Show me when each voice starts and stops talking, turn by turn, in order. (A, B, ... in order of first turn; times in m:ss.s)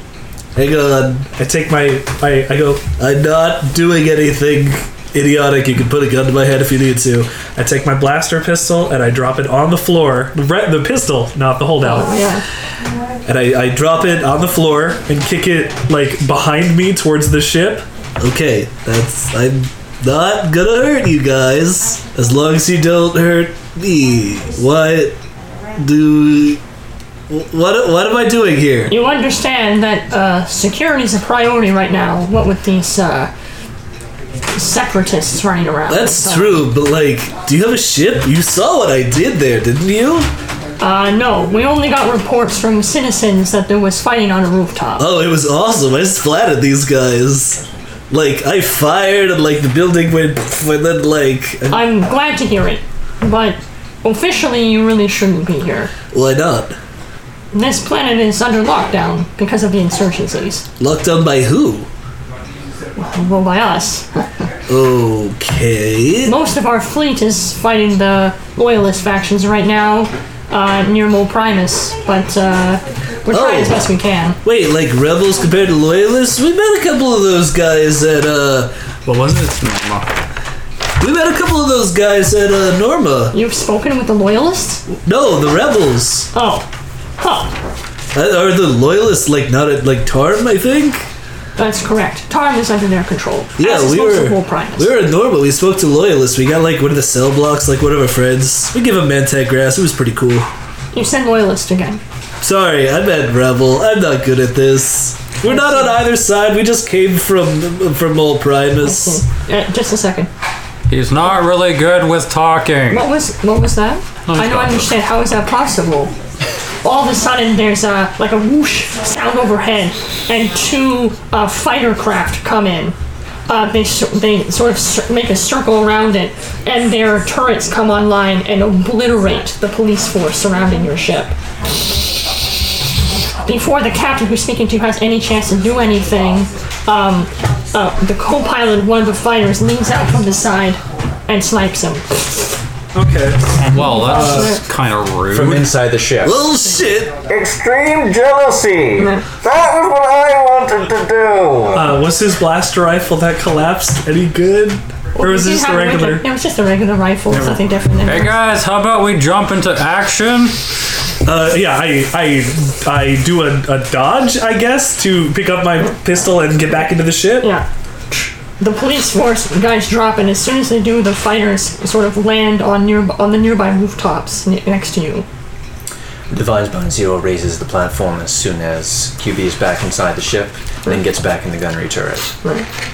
0:00.6-0:01.4 A
0:01.4-0:02.8 B
0:02.8-0:07.4 A
0:07.5-0:12.2 B
0:11.8-0:12.4 C
0:13.2-0:14.6 A
0:14.1-0:17.9 B
0:18.2-0:25.2 A
0:25.8-0:26.6 A
0:27.3-0:29.0 A
0:28.9-0:33.3 C
0:34.5-0:36.7 C
0:35.9-0:40.3 A
0:40.8-0:45.1 C
0:45.0-0:51.9 A
0:51.7-0:55.9 C
0:56.1-0:56.8 A
0:57.5-1:00.6 C
1:00.8-1:01.9 A
1:03.0-1:04.4 C
1:04.7-1:06.4 A
1:06.2-1:14.4 C
1:13.3-1:13.8 A
1:14.4-1:18.8 A
1:19.1-1:20.1 D
1:21.0-1:23.4 A
1:23.3-1:24.8 C
1:24.9-1:26.3 A
1:26.3-1:26.7 C
1:27.2-1:27.5 C
1:28.1-1:31.1 A
1:31.6-1:35.0 C
1:33.6-1:40.5 A
1:40.9-1:42.0 C
1:42.4-1:49.2 A
1:45.4-1:46.0 C
1:48.8-1:50.3 C
1:50.9-1:53.1 D
1:52.9-1:56.1 C
1:54.3-1:54.9 D
1:56.8-2:03.0 C
2:03.5-2:11.4 C
2:13.4-2:22.6 C
2:22.9-2:24.5 B
2:23.7-2:25.7 D
2:23.7-2:24.6 C
2:25.3-2:26.5 E
2:26.2-2:27.2 A
2:27.2-2:32.0 E
2:31.7-2:36.2 B
2:35.2-2:38.4 C
2:38.0-2:40.7 D
2:41.2-2:47.5 B
2:47.4-2:55.3 C
2:56.3-3:02.3 E